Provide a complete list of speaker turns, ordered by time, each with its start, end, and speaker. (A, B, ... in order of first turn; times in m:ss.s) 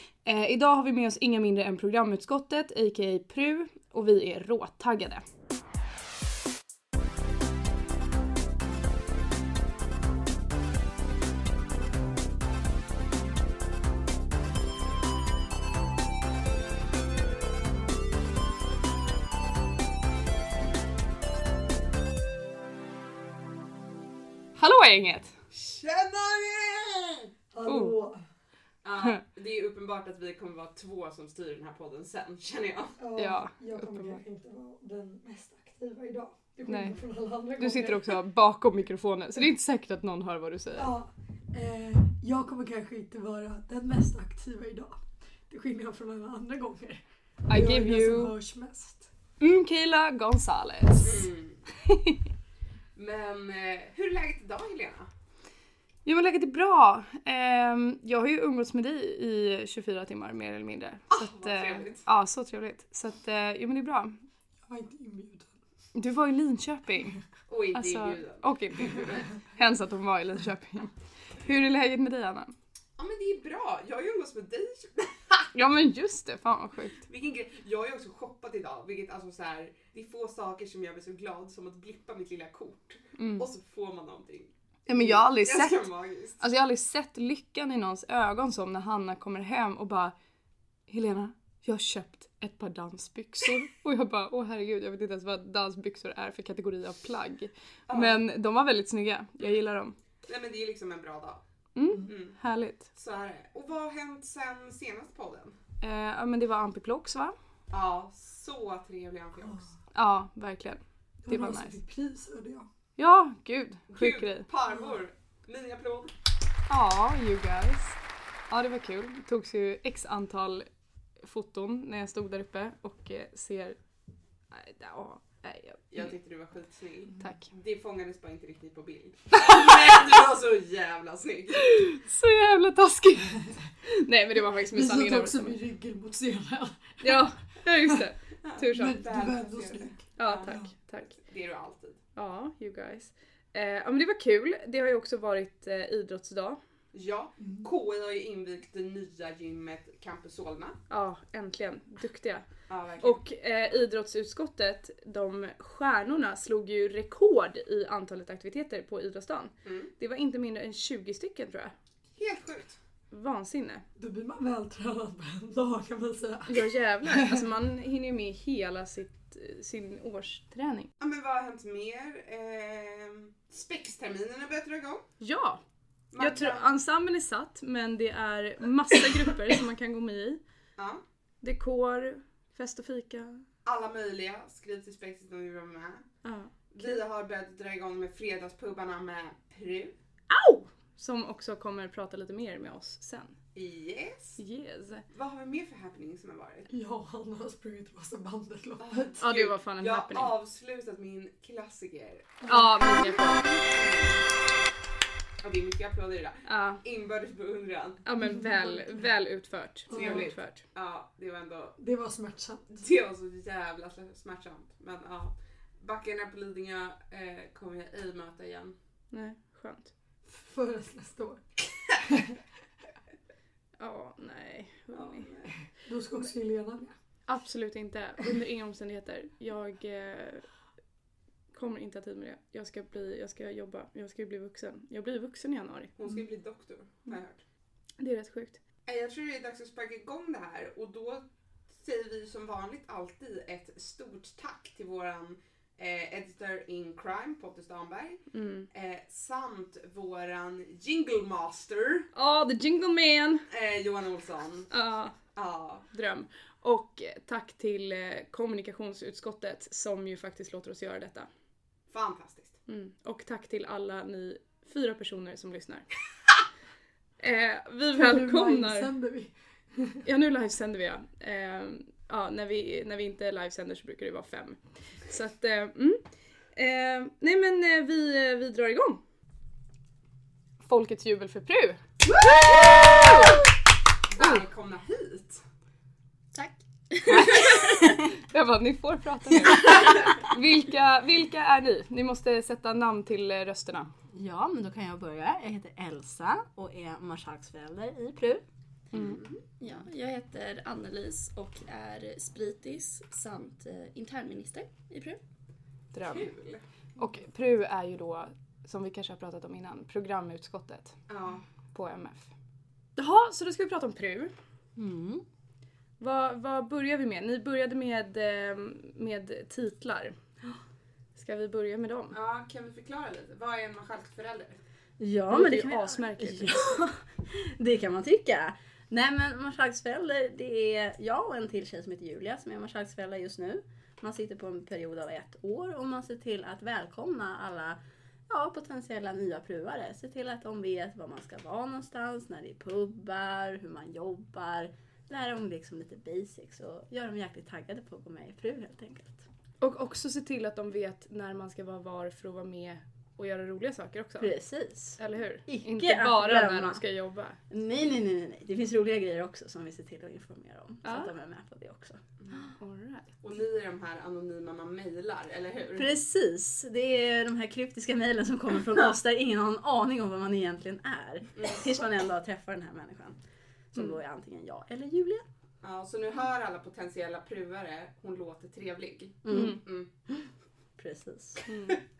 0:00.2-0:05.2 A
0:24.6-0:25.3 A
0:25.5-0:27.3 B
0:27.5-0:28.2 C
0:27.6-0:27.9 A
0:28.8-0:33.0 B
0:33.0-0:38.2 C
0:33.2-0:34.2 A
0:36.7-0:40.9 A
0:40.7-0:49.1 C
0:47.5-0:48.3 A
0:49.4-0:52.2 A
0:51.0-0:51.6 B
0:52.9-0:55.1 B
0:56.0-1:04.2 A
1:01.1-1:02.0 B
1:04.6-1:05.6 C
1:05.9-1:07.2 A
1:07.5-1:09.3 B
1:07.7-1:12.5 A
1:13.0-1:15.5 B
1:15.5-1:17.0 A
1:17.0-1:26.4 B
1:23.2-1:23.5 A
1:24.9-1:25.9 A
1:26.4-1:30.1 A
1:30.9-1:39.9 A
1:37.9-1:38.2 B
1:40.2-1:41.4 B
1:41.8-1:42.9 A
1:42.0-1:42.4 B
1:42.9-1:45.6 B
1:45.8-1:47.3 A
1:47.7-1:49.7 B
1:49.9-1:51.8 A
1:51.2-1:52.7 C
1:53.0-1:54.5 A
1:53.9-1:56.1 B
1:54.7-1:55.0 C
1:56.7-1:58.0 A
1:58.5-2:00.6 A
2:01.2-2:03.8 A
2:04.5-2:06.1 A
2:05.9-2:11.7 B
2:07.2-2:07.5 A
2:11.7-2:15.6 A
2:13.4-2:13.7 C
2:14.7-2:17.3 C
2:17.0-2:19.0 A
2:18.4-2:22.0 B
2:18.8-2:20.7 C
2:20.2-2:21.1 A
2:22.1-2:26.6 A
2:26.9-2:30.8 B
2:27.4-2:27.7 C
2:30.9-2:32.4 A
2:32.7-2:33.2 B
2:33.0-2:41.7 A
2:39.6-2:39.9 B
2:42.2-2:42.8 B
2:43.1-2:43.8 A
2:44.0-2:47.4 C
2:46.5-2:50.9 A
2:51.0-2:55.0 B
2:55.2-2:55.6 A
2:56.1-2:56.7 B
2:56.2-3:00.4 A
3:01.4-3:03.4 A
3:03.6-3:06.0 B
3:06.2-3:07.0 A
3:06.7-3:09.9 B
3:10.3-3:13.3 A
3:13.5-3:14.4 B
3:14.4-3:15.0 A
3:15.1-3:16.7 B
3:16.7-3:19.2 C
3:18.8-3:24.2 B
3:19.2-3:20.3 A
3:22.4-3:23.1 C
3:22.5-3:23.4 A
3:25.4-3:28.0 B
3:26.4-3:26.8 A
3:28.0-3:30.6 A
3:29.9-3:30.3 C
3:29.9-3:31.8 B
3:31.8-3:32.8 C
3:32.7-3:38.7 B
3:39.1-3:39.9 A
3:40.2-3:41.4 C
3:42.1-3:42.4 C
3:43.8-3:45.3 A
3:44.9-3:45.5 B
3:45.5-3:46.9 C
3:47.3-3:50.5 A
3:51.5-3:55.9 A
3:56.0-3:57.4 B
3:58.0-3:58.6 A
3:58.8-4:12.1 B
4:08.3-4:08.7 A
4:12.1-4:13.4 A
4:13.5-4:14.7 B
4:14.7-4:15.2 A
4:15.3-4:15.8 B
4:15.9-4:21.3 A
4:21.9-4:22.6 B
4:22.7-4:25.9 A
4:27.2-4:28.9 A
4:27.9-4:30.0 C
4:30.0-4:36.0 A
4:36.5-4:39.0 A
4:40.6-4:41.8 A
4:42.2-4:43.1 B
4:42.5-4:43.4 A
4:44.1-4:45.4 B
4:46.3-4:47.9 D
4:47.1-4:53.9 A
4:54.1-4:58.4 E
4:58.9-4:59.2 A
4:58.9-4:59.4 B
4:59.6-5:05.2 D
5:05.9-5:06.3 A
5:06.0-5:06.6 B
5:07.0-5:11.0 A
5:11.1-5:11.4 B
5:11.7-5:12.3 A
5:13.0-5:14.3 A
5:14.8-5:15.2 E
5:16.0-5:20.2 A
5:21.2-5:22.2 A
5:22.1-5:24.6 B
5:25.0-5:49.3 E
5:25.3-5:26.6 A
5:49.6-5:54.3 A
5:54.2-5:56.8 E
5:55.0-5:57.4 A
5:57.5-6:02.0 E
6:00.8-6:01.1 A
6:02.6-6:03.1 A
6:03.2-6:05.9 B
6:05.8-6:13.2 E
6:13.7-6:15.2 E
6:15.6-6:19.9 B
6:19.2-6:19.6 E
6:19.3-6:19.6 A
6:20.8-6:21.5 E
6:21.5-6:21.8 A